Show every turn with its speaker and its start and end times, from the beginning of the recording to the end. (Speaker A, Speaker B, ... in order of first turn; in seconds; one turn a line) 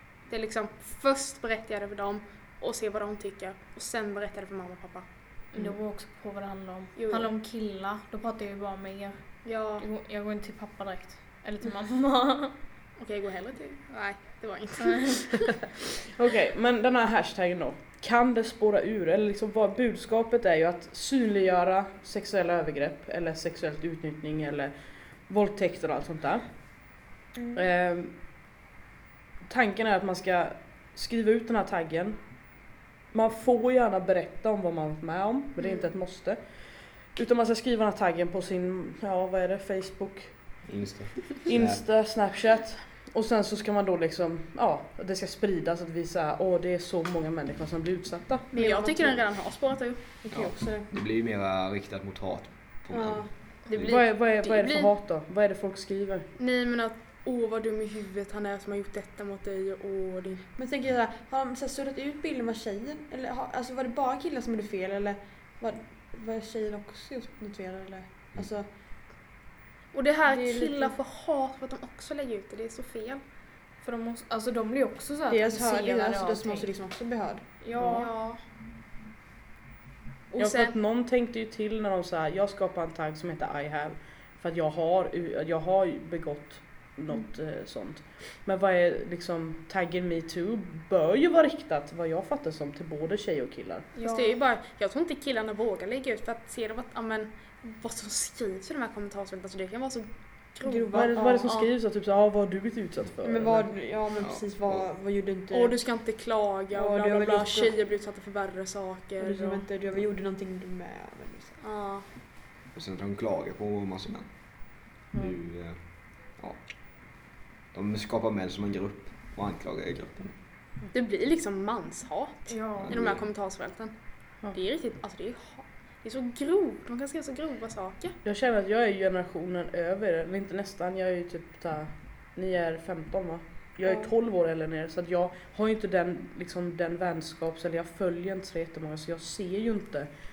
Speaker A: 0.3-5.0
Speaker B: 5.5-12.5
Speaker A: 6.9-7.3
Speaker A: 9.4-9.8
Speaker A: 13.0-15.5
Speaker B: 14.8-15.2
Speaker C: 16.0-24.7
Speaker C: 25.3-26.4
Speaker C: 27.5-28.1
Speaker C: 29.5-32.2
Speaker C: 33.1-36.4
Speaker A: 35.6-35.8
Speaker C: 37.1-40.3
Speaker D: 40.7-41.9
Speaker C: 41.4-48.5
Speaker E: 48.5-49.3
Speaker A: 48.5-50.0
Speaker E: 50.2-50.9
Speaker D: 50.3-54.0
Speaker E: 52.9-53.3
Speaker A: 53.7-54.9
Speaker C: 53.8-56.2
Speaker A: 56.4-60.5
Speaker E: 60.5-68.7
Speaker A: 69.9-73.2
Speaker E: 70.3-70.9
Speaker B: 73.8-76.7
Speaker E: 75.3-78.1
Speaker B: 77.6-78.4
Speaker A: 77.8-78.1
Speaker A: 80.3-80.7
Speaker C: 80.4-93.8
Speaker A: 94.0-101.0
Speaker E: 100.6-101.7
Speaker C: 100.9-103.7
Speaker E: 103.2-105.9
Speaker D: 104.1-104.8
Speaker A: 105.5-109.7
Speaker E: 106.7-107.7
Speaker E: 109.2-111.6
Speaker A: 111.6-112.1
Speaker D: 112.7-117.2
Speaker D: 117.7-120.3
Speaker A: 120.9-123.9
Speaker B: 122.5-123.0
Speaker D: 122.8-123.3
Speaker A: 124.5-128.1
Speaker C: 128.2-140.1